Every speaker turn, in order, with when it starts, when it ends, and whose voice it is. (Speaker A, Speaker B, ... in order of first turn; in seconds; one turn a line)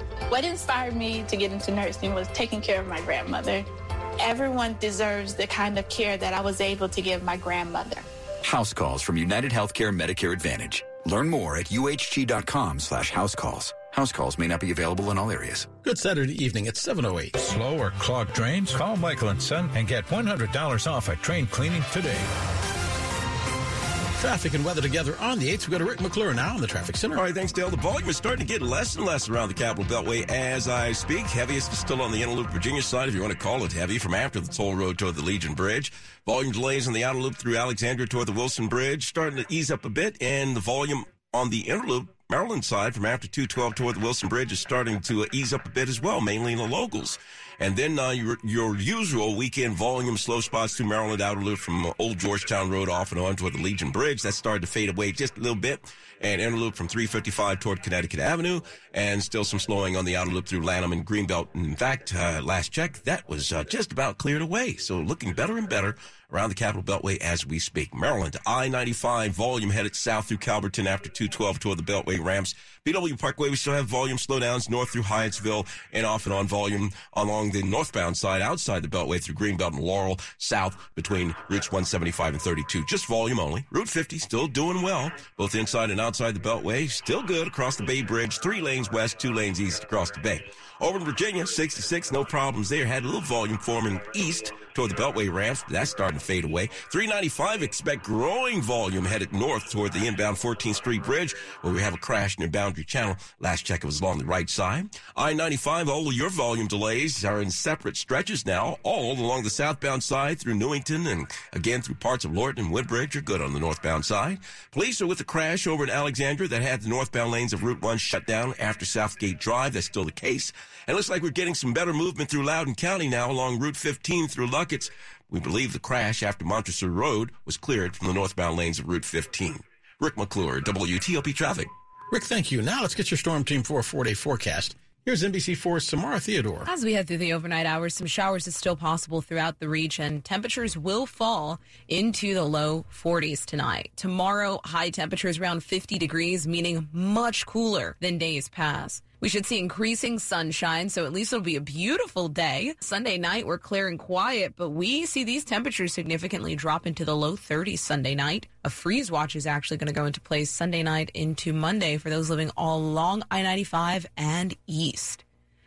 Speaker A: 0.3-3.7
Speaker A: 4.2-8.0
Speaker B: 8.4-15.7
Speaker C: 15.8-17.3
Speaker D: 17.4-22.2
Speaker C: 24.2-27.2
Speaker E: 27.1-131.7
Speaker C: 132.1-136.7
Speaker F: 136.6-165.2